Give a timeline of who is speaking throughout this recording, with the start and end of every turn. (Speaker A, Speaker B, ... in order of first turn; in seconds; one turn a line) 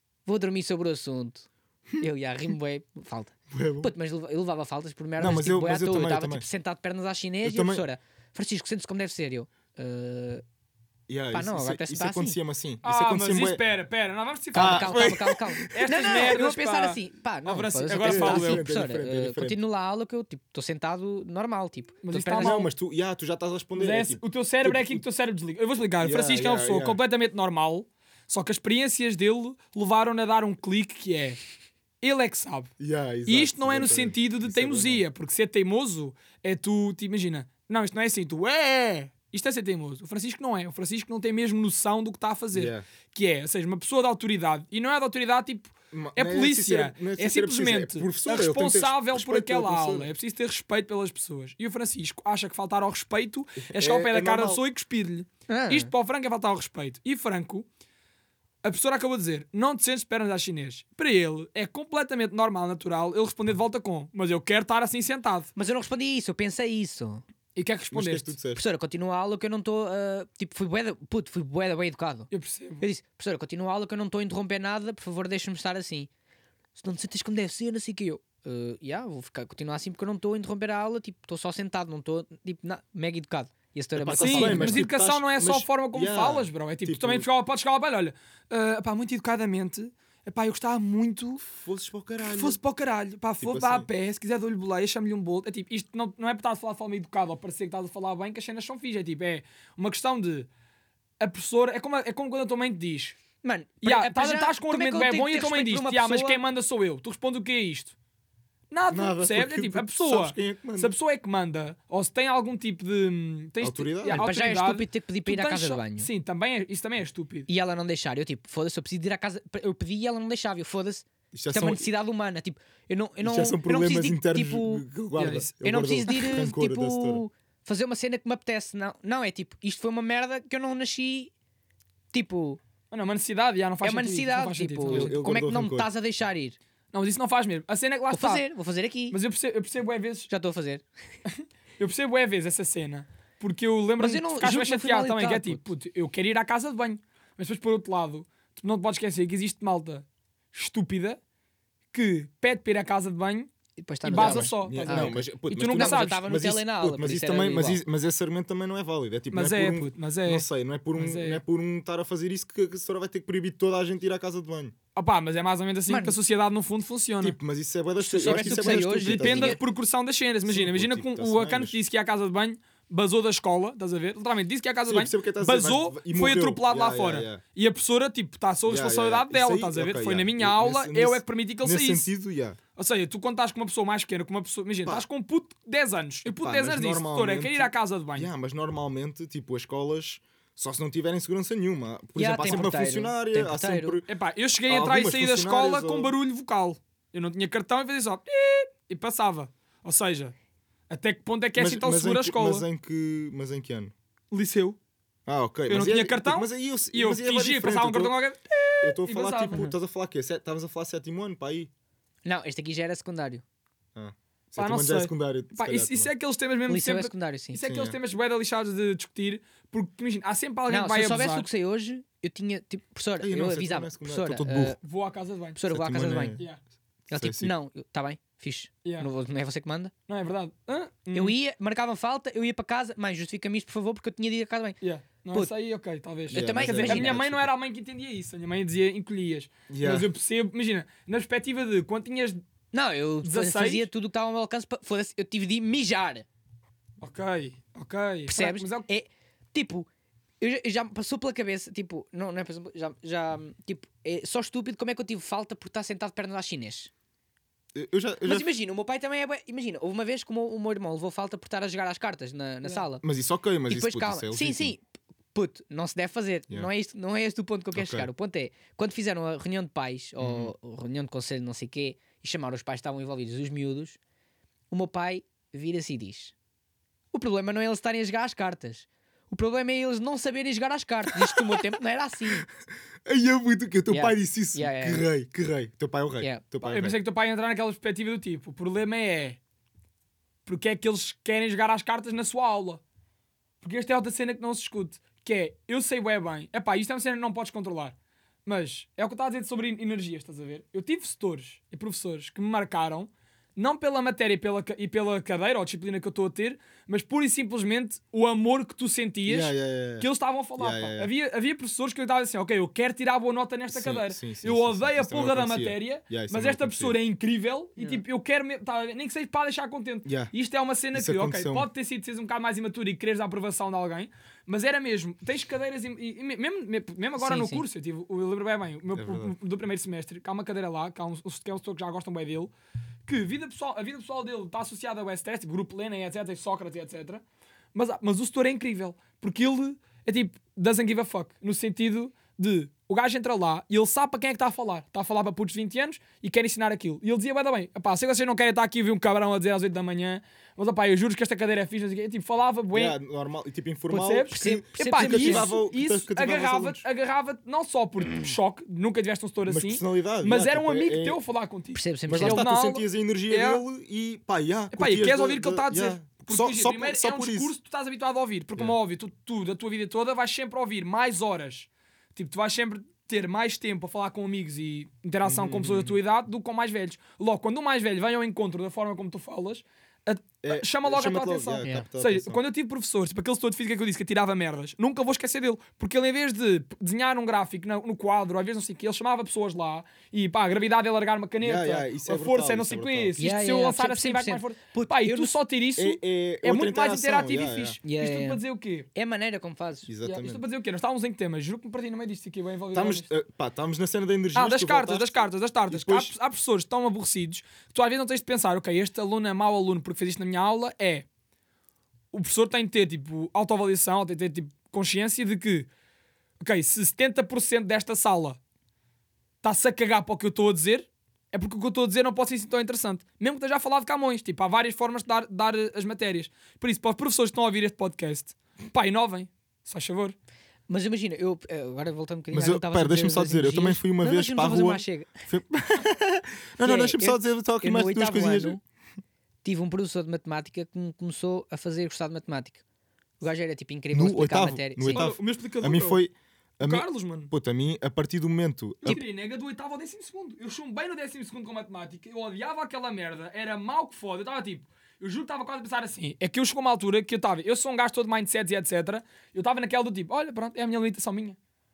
Speaker A: 0.3-1.5
Speaker A: 2.0-10.4
Speaker B: 3.5-3.9
Speaker B: 5.2-6.5
Speaker B: 7.4-7.8
Speaker B: 11.1-13.6
Speaker A: 11.3-12.4
Speaker C: 12.8-18.6
Speaker A: 14.5-22.6
Speaker B: 14.6-16.4
Speaker B: 18.0-19.6
Speaker C: 22.0-22.7
Speaker B: 22.4-25.0
Speaker C: 23.8-31.4
Speaker B: 26.0-27.0
Speaker C: 32.0-32.7
Speaker B: 32.8-35.0
Speaker C: 33.3-57.7
Speaker B: 42.5-42.9
Speaker B: 45.9-50.1
Speaker B: 53.6-54.6
Speaker A: 55.5-55.9
Speaker C: 58.6-65.5
Speaker A: 65.5-67.2
Speaker C: 67.5-68.3
Speaker B: 67.9-68.6
Speaker A: 68.5-76.1
Speaker C: 72.3-72.8
Speaker A: 76.8-84.8
Speaker B: 84.0-87.3
Speaker C: 84.2-91.4
Speaker B: 91.4-92.6
Speaker C: 92.2-100.5
Speaker B: 93.4-93.9
Speaker C: 101.2-103.2
Speaker A: 103.4-106.4
Speaker C: 103.8-107.9
Speaker C: 108.7-117.5
Speaker B: 108.9-110.9
Speaker B: 113.6-114.3
Speaker A: 114.0-116.1
Speaker A: 117.5-124.9
Speaker B: 121.3-121.9
Speaker B: 123.2-127.2
Speaker C: 125.2-125.5
Speaker A: 125.6-131.3
Speaker A: 132.1-132.6
Speaker C: 132.9-135.1
Speaker A: 133.8-136.6
Speaker B: 134.9-135.9
Speaker C: 136.9-138.4
Speaker A: 138.1-139.2
Speaker C: 139.1-140.3
Speaker A: 140.3-140.8
Speaker C: 141.3-151.2
Speaker A: 144.0-145.6
Speaker C: 151.9-153.5
Speaker A: 153.8-157.8
Speaker C: 154.1-156.2
Speaker B: 154.1-164.7
Speaker C: 159.3-160.4
Speaker C: 160.9-161.4
Speaker C: 164.9-167.4
Speaker A: 165.9-166.2
Speaker B: 167.2-169.6
Speaker A: 168.0-169.6
Speaker C: 168.2-182.1
Speaker B: 170.4-171.8
Speaker B: 174.9-177.4
Speaker B: 178.7-182.6
Speaker C: 182.8-188.3
Speaker B: 186.3-194.1
Speaker A: 192.2-194.0
Speaker C: 194.1-200.3
Speaker B: 194.7-196.1
Speaker C: 200.9-202.7
Speaker B: 201.6-203.9
Speaker C: 204.3-204.8
Speaker B: 205.3-208.1
Speaker C: 205.7-209.7
Speaker B: 208.8-211.7
Speaker A: 212.2-213.4
Speaker B: 213.9-216.1
Speaker C: 214.6-221.5
Speaker A: 216.7-217.6
Speaker B: 217.6-217.9
Speaker A: 220.7-224.8
Speaker B: 223.2-224.8
Speaker C: 224.8-225.6
Speaker A: 225.6-226.4
Speaker B: 225.7-226.5
Speaker B: 227.1-227.5
Speaker A: 227.1-229.9
Speaker C: 230.1-231.4
Speaker A: 231.1-234.8
Speaker C: 234.8-242.4
Speaker A: 236.3-237.2
Speaker B: 236.3-237.5
Speaker B: 239.7-240.1
Speaker A: 242.7-246.3
Speaker C: 243.2-243.9
Speaker C: 247.0-248.8
Speaker A: 248.3-249.9
Speaker A: 250.4-256.9
Speaker B: 257.7-258.5
Speaker A: 258.2-263.0
Speaker B: 263.0-264.7
Speaker A: 263.7-264.8
Speaker A: 265.3-274.0
Speaker B: 267.7-268.1
Speaker B: 270.2-270.5
Speaker A: 274.7-276.3
Speaker A: 277.1-282.5
Speaker B: 281.2-281.7
Speaker B: 283.1-287.0
Speaker A: 283.9-285.1
Speaker C: 286.6-289.4
Speaker C: 290.4-292.8
Speaker C: 293.6-297.9
Speaker C: 298.4-332.5
Speaker B: 309.3-311.1
Speaker B: 313.7-317.0
Speaker A: 317.8-318.0
Speaker B: 320.1-320.3
Speaker B: 320.9-321.7
Speaker A: 327.2-327.6
Speaker B: 328.9-329.3
Speaker C: 333.1-337.2
Speaker C: 337.7-352.9
Speaker B: 352.7-356.8
Speaker C: 353.9-363.6
Speaker A: 354.3-355.5
Speaker B: 359.5-361.2
Speaker A: 361.7-362.4
Speaker B: 362.1-367.5
Speaker C: 364.7-398.9
Speaker B: 375.2-376.0
Speaker B: 380.4-382.4
Speaker B: 391.4-393.2
Speaker A: 393.2-395.4
Speaker B: 395.8-397.8
Speaker A: 397.8-398.4
Speaker A: 398.9-399.9
Speaker B: 399.9-400.4
Speaker C: 400.0-403.1
Speaker B: 402.7-406.1
Speaker C: 404.3-411.1
Speaker C: 412.1-415.7
Speaker C: 416.4-418.4
Speaker C: 419.4-430.2
Speaker A: 430.7-435.2
Speaker B: 432.3-438.6
Speaker A: 436.6-438.6
Speaker A: 439.4-442.6
Speaker A: 443.2-445.1
Speaker B: 443.9-449.0
Speaker C: 444.8-446.0
Speaker C: 446.6-447.3
Speaker C: 448.8-461.4